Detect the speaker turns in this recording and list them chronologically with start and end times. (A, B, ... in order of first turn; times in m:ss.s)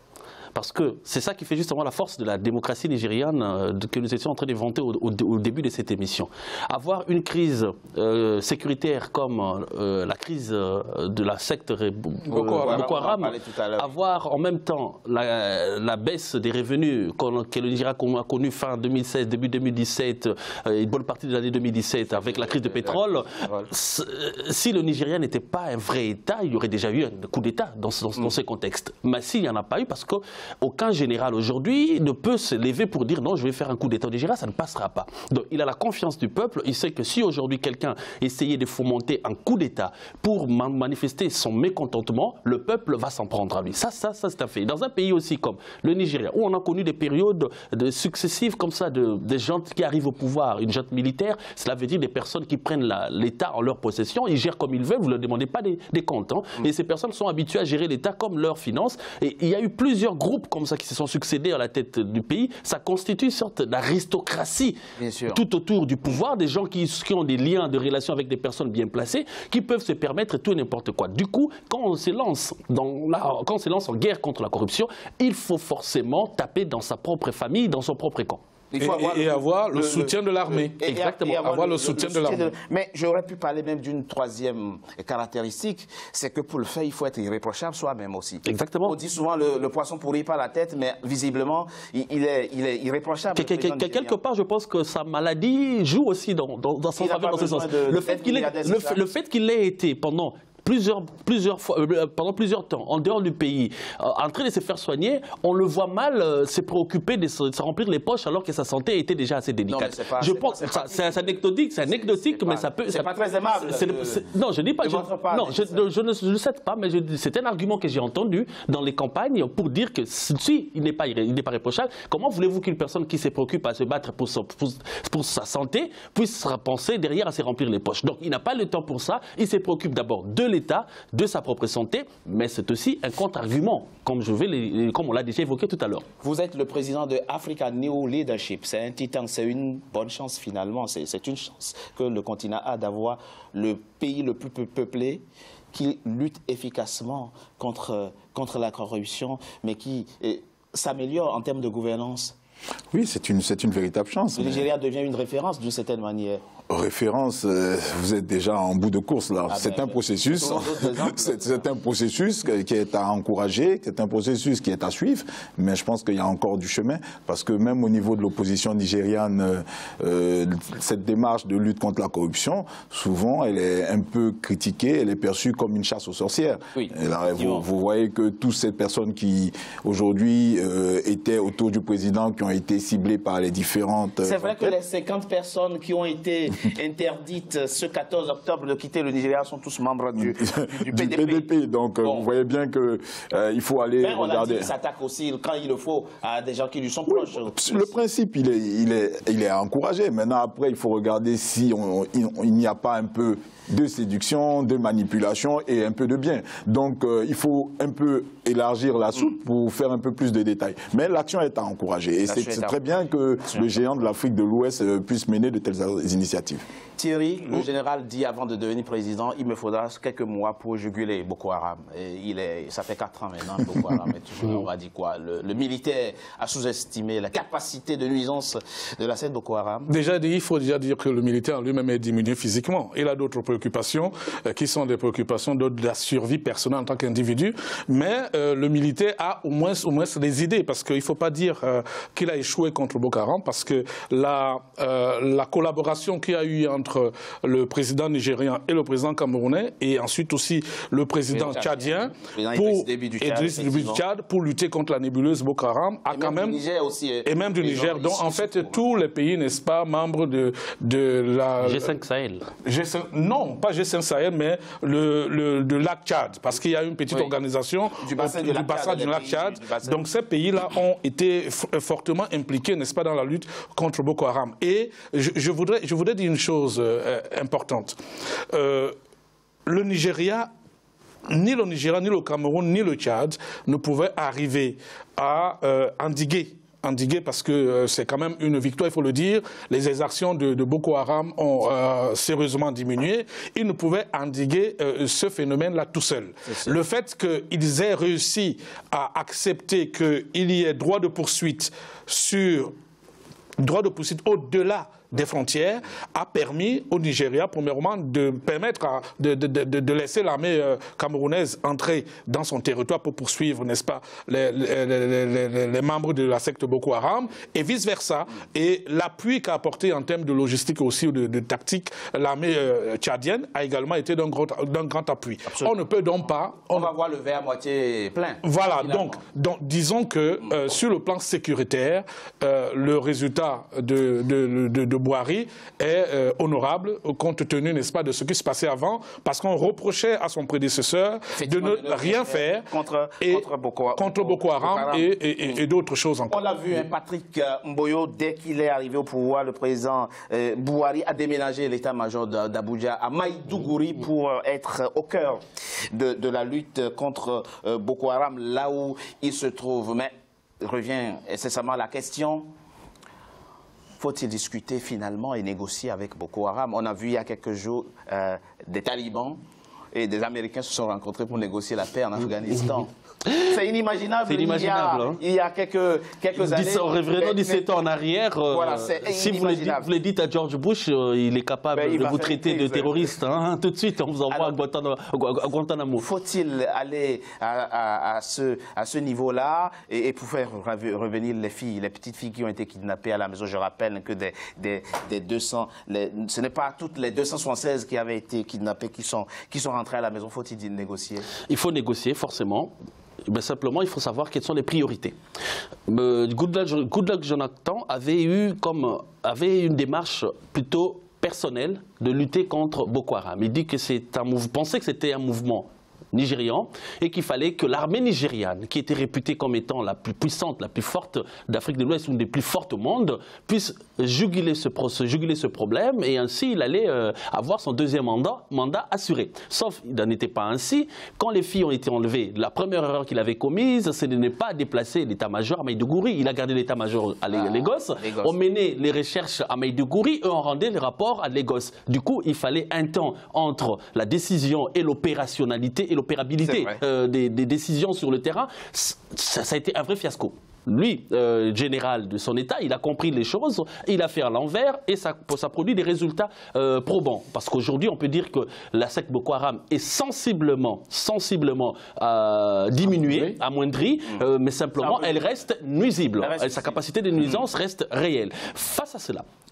0:00.5-1:04.8 A
0:12.3-0:13.0 B
0:12.5-0:13.9 C
0:22.0-0:23.7 C
1:05.0-1:05.4 C
1:05.3-1:18.4 A
1:18.7-1:34.2 C
1:18.8-1:20.8 B
1:20.9-1:21.4 A
1:21.4-1:22.5 B
1:28.4-1:28.9 A
1:33.3-2:16.0 A
1:37.0-1:39.0 C
1:49.7-1:54.2 C
1:54.9-1:55.8 C
2:16.2-2:32.4 C
2:32.9-2:34.6 D
2:34.3-2:36.4 C
2:36.7-3:04.7 D
2:39.5-2:41.5 C
2:56.8-2:57.6 C
3:04.2-3:11.5 C
3:10.2-3:14.7 D
3:12.0-3:12.3 C
3:14.0-3:17.9 C
3:17.1-3:36.6 D
3:32.3-3:32.8 C
3:37.0-3:49.9 C
3:49.9-4:16.6 B
4:11.3-4:14.0 C
4:16.1-4:18.8 C
4:17.2-4:21.9 B
4:21.6-4:22.4 A
4:22.6-4:38.0 B
4:27.1-4:27.3 C
4:28.0-4:30.0 C
4:38.5-4:38.9 B
4:39.7-4:40.5 B
4:41.3-5:02.7 B
5:03.6-5:26.9 B
5:25.5-5:25.8 C
5:26.7-5:29.2 C
5:28.4-5:42.7 B
5:41.3-5:45.6 C
5:43.2-5:43.4 B
5:44.0-5:46.4 B
5:46.3-5:55.4 C
5:55.9-6:02.5 C
6:04.0-6:09.4 C
6:09.9-6:12.9 C
6:12.7-6:13.5 A
6:13.5-6:17.7 C
6:14.3-6:15.2 A
6:16.3-6:26.0 A
6:18.5-6:19.9 C
6:21.7-6:23.1 C
6:26.0-6:41.3 C
6:41.5-6:42.7 A
6:43.3-6:45.2 A
6:45.9-7:49.2 A
7:17.3-7:18.3 C
7:26.4-7:26.8 C
7:44.8-7:45.4 C
7:46.2-7:47.4 C